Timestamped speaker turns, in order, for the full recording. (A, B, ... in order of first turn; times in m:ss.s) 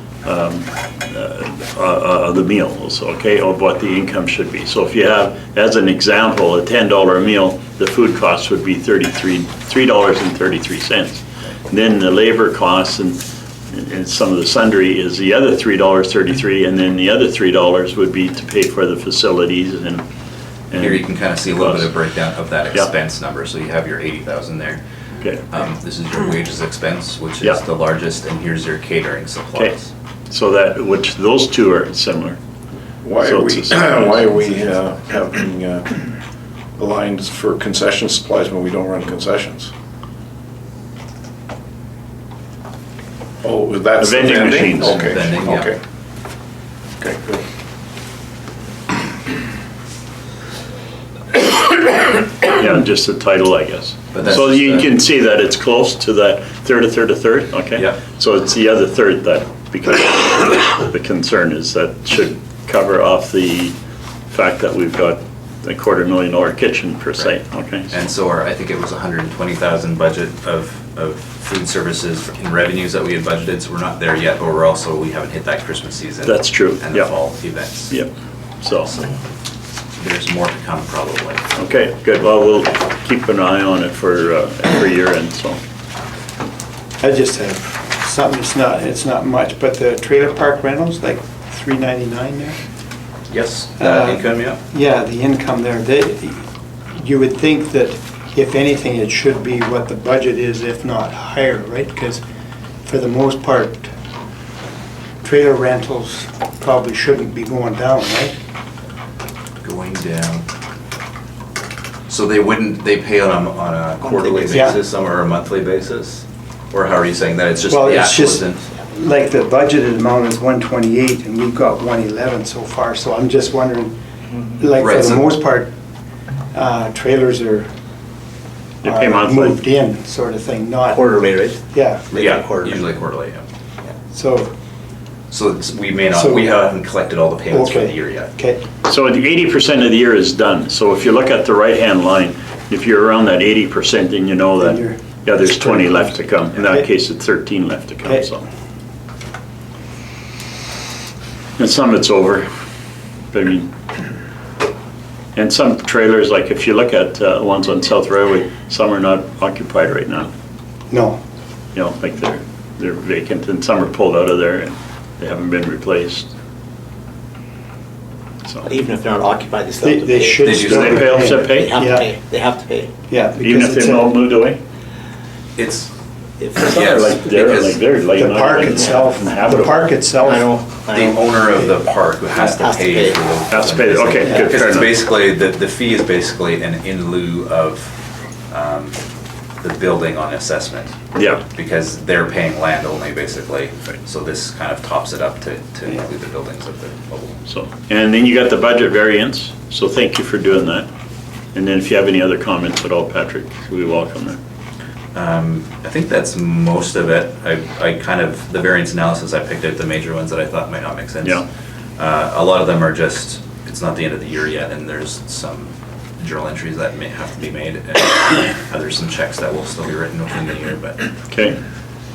0:00.2-0:20.0 A
0:20.7-0:21.9 A
0:20.7-0:24.8 B
0:25.5-0:29.9 B
0:30.3-0:32.4 A
0:33.0-0:36.0 C
0:33.2-0:34.8 A
0:36.8-0:39.7 C
0:43.4-0:45.8 C
0:44.0-0:45.0 A
0:44.8-0:45.7 B
0:47.0-0:47.4 C
0:52.5-1:03.7 A
0:54.1-0:54.9 B
0:57.8-0:58.0 B
1:04.3-1:07.9 A
1:07.2-1:18.0 B
1:16.2-1:17.2 A
1:17.9-1:18.9 A
1:20.0-1:21.5 B
1:21.5-1:25.6 A
1:27.0-1:32.6 D
1:33.3-1:34.6 B
1:33.8-1:42.2 D
1:42.8-1:43.9 D
1:45.2-1:48.3 D
1:49.6-1:50.4 B
1:52.1-1:58.6 B
1:54.2-1:54.8 D
1:57.7-2:03.9 D
2:04.3-2:04.6 E
2:04.6-2:05.7 D
2:04.8-2:05.4 B
2:06.5-2:07.7 D
2:08.8-2:09.6 A
2:08.9-2:09.5 E
2:08.9-2:11.0 D
2:10.7-2:12.9 E
2:12.1-2:13.4 B
2:13.8-2:14.4 E
2:15.3-2:18.3 B
2:16.1-2:16.5 D
2:17.5-2:18.6 D
2:18.8-2:28.4 A
2:31.6-2:32.5 A
2:33.3-2:33.7 A
2:35.3-2:40.3 A
2:40.9-2:41.2 D
2:41.7-2:46.3 A
2:48.4-2:48.7 A
2:48.6-2:54.1 E
2:49.8-2:52.0 D
2:50.4-2:51.0 B
2:50.6-2:51.8 A
2:53.2-2:54.1 D
2:53.3-2:54.6 A
2:55.6-2:55.9 B
2:56.4-2:56.8 E
2:56.6-2:59.9 A
2:56.7-2:57.8 B
2:58.2-3:00.4 D
2:58.3-3:01.5 E
3:00.9-3:08.0 B
3:02.3-3:03.2 E
3:03.5-3:05.0 A
3:04.2-3:04.5 D
3:08.5-3:09.0 B
3:09.6-3:17.5 B
3:11.1-3:11.4 A
3:17.5-3:20.9 A
3:21.5-3:24.4 A
3:25.1-3:31.4 B
3:32.0-3:41.1 B
3:41.3-3:41.6 A